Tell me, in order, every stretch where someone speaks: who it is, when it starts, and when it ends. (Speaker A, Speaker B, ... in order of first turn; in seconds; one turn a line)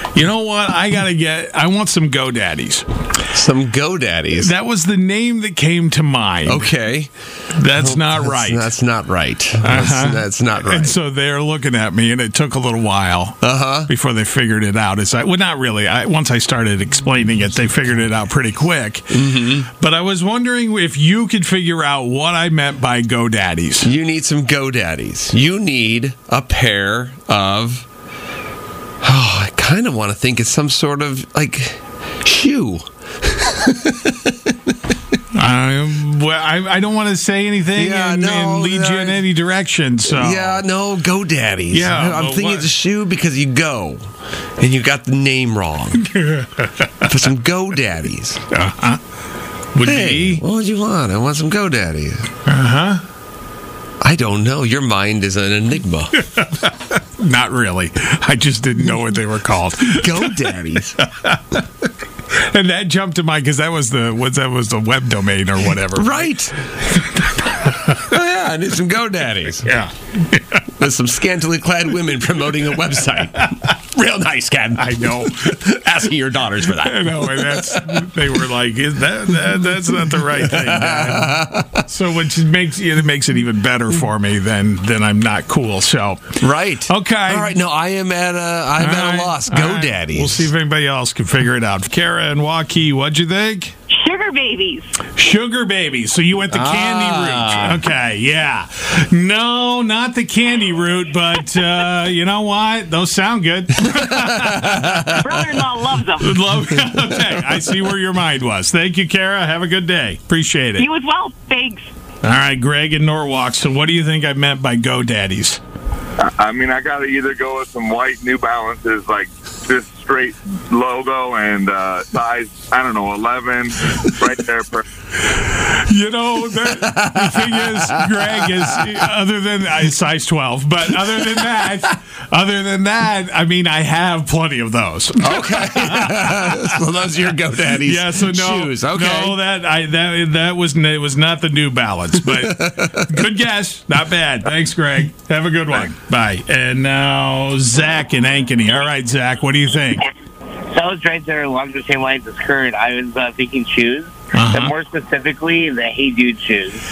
Speaker A: 0.1-2.9
Speaker B: 3.3-4.5
Speaker A: 4.3-6.7
Speaker B: 6.5-7.1
Speaker A: 7.5-8.7
Speaker B: 7.7-11.0
Speaker A: 9.6-23.9
Speaker B: 13.4-13.9
Speaker B: 19.1-19.7
Speaker B: 23.8-27.9
Speaker B: 29.0-34.5
Speaker A: 35.3-40.7
Speaker B: 37.8-39.3
Speaker B: 40.0-46.1
Speaker A: 41.7-42.7
Speaker A: 46.0-47.1
Speaker B: 47.0-48.4
Speaker A: 48.5-49.0
Speaker A: 49.7-50.4
Speaker B: 49.8-52.3
Speaker A: 52.5-53.0
Speaker B: 54.0-56.1
Speaker A: 56.2-61.6
Speaker B: 59.9-61.0
Speaker A: 62.3-66.4
Speaker B: 65.9-66.5
Speaker A: 66.9-68.1
Speaker B: 68.0-69.7
Speaker A: 69.6-70.6
Speaker B: 70.8-78.2
Speaker A: 74.8-75.6
Speaker A: 76.6-87.6
Speaker B: 79.9-81.8
Speaker B: 86.4-90.5
Speaker A: 88.8-93.7
Speaker C: 94.0-94.9
Speaker A: 95.2-105.3
Speaker B: 96.5-97.8
Speaker B: 104.2-105.0
Speaker C: 105.2-106.4
Speaker A: 106.2-110.9
Speaker C: 110.8-111.9
Speaker A: 112.2-115.6
Speaker D: 116.2-124.9
Speaker A: 125.3-136.8
Speaker B: 126.7-128.8
Speaker B: 131.0-131.3
Speaker B: 135.2-139.4
Speaker A: 137.6-150.1
Speaker B: 142.2-143.2
Speaker E: 150.7-156.8
Speaker A: 154.3-154.8